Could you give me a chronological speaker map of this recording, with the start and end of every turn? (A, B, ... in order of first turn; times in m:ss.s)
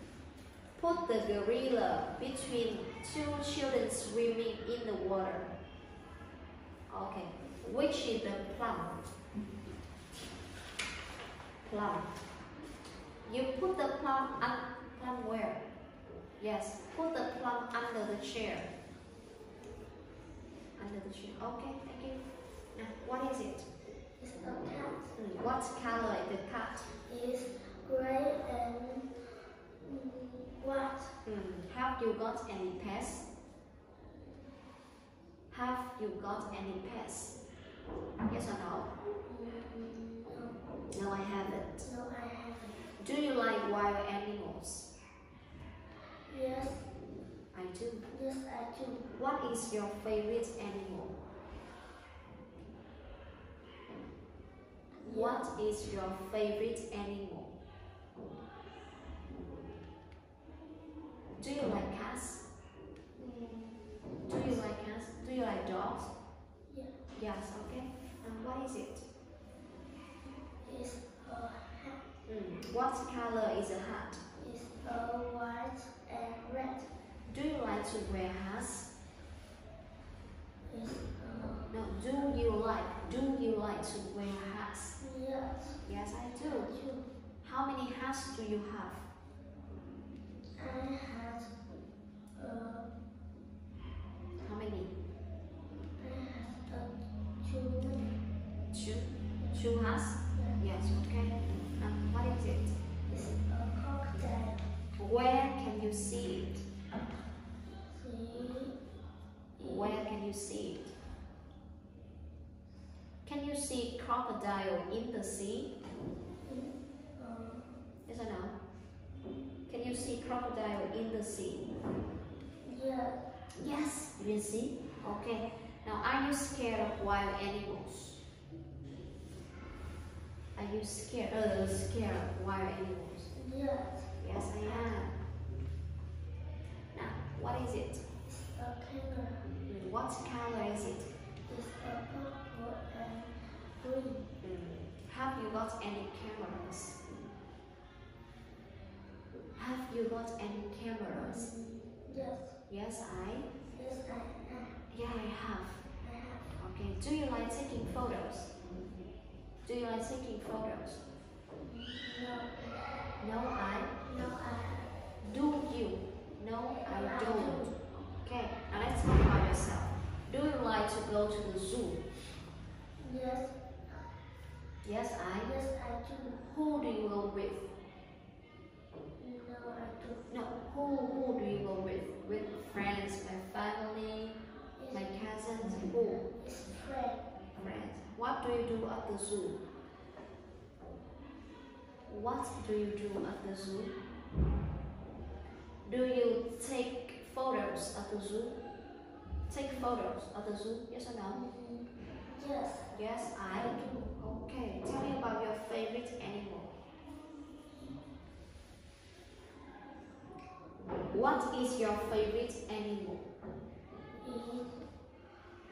0:00.8-0:05.5 A
0:06.9-0:09.0 A
0:11.6-0:12.1 A
0:13.2-0:15.6 A
0:16.4-0:18.7 A
0:20.8-0:22.2 A
0:22.7-0:23.7 A
0:24.2-0:25.1 B
0:25.2-0:26.9 A
0:26.8-0:31.2 B
0:31.2-0:33.2 A
0:35.5-0:37.3 A
0:38.2-0:38.9 A
0:39.2-0:40.7 B
0:40.9-0:41.8 A
0:41.8-0:42.9 B
0:43.0-0:44.9 A
0:46.1-0:46.9 B
0:47.5-0:48.1 A
0:48.1-0:49.1 B
0:49.1-0:51.2 A
0:54.9-0:55.5 B
0:55.0-0:57.5 A
1:01.4-1:02.4 A
1:03.2-1:04.6 B
1:04.3-1:06.1 A
1:06.7-1:07.0 B
1:07.1-1:09.0 A
1:10.6-1:12.1 B
1:12.2-1:14.2 A
1:14.3-1:16.9 B
1:17.2-1:18.9 A
1:20.7-1:21.9 B
1:21.7-1:25.0 A
1:25.0-1:25.8 B
1:25.8-1:26.7 A
1:26.4-1:27.1 B
1:27.4-1:29.0 A
1:30.6-1:31.5 B
1:32.3-1:33.0 B
1:34.4-1:34.9 A
1:36.0-1:38.2 B
1:38.7-1:42.7 A
1:39.4-1:40.6 B
1:43.1-1:44.7 B
1:44.9-1:46.6 A
1:47.8-1:48.8 B
1:49.6-1:50.1 B
1:49.6-1:50.9 A
1:53.2-1:55.7 A
1:56.4-1:57.8 B
1:58.0-1:58.6 A
1:59.7-2:01.6 A
2:02.6-2:03.2 B
2:03.5-2:08.2 A
2:10.5-2:13.3 A
2:13.3-2:15.0 B
2:14.2-2:15.2 A
2:16.9-2:18.1 A
2:18.2-2:19.6 B
2:19.6-2:21.1 A
2:21.4-2:24.3 B
2:24.4-2:27.0 A
2:29.5-2:31.5 A
2:31.1-2:32.6 B
2:32.7-2:33.5 A
2:33.7-2:34.8 B
2:34.9-2:35.8 A
2:35.9-2:36.6 B
2:36.6-2:38.5 A
2:39.6-2:41.0 A
2:41.5-2:43.0 B
2:43.2-2:44.0 A
2:44.0-2:44.9 B
2:45.2-2:52.0 A
2:46.7-2:47.8 B
2:53.0-2:54.0 B
2:54.8-2:55.5 A
2:55.4-2:56.4 B
2:56.3-2:57.7 A
2:59.2-3:00.3 B
3:00.3-3:04.4 A
3:04.8-3:05.2 B
3:04.9-3:06.2 A
3:06.1-3:07.2 B
3:07.5-3:09.6 A
3:12.0-3:14.0 A
3:15.8-3:18.6 A
3:19.5-3:21.4 A
3:21.3-3:22.9 B
3:22.9-3:26.7 A
3:23.4-3:24.2 B
3:31.1-3:33.3 A
3:34.2-3:34.8 B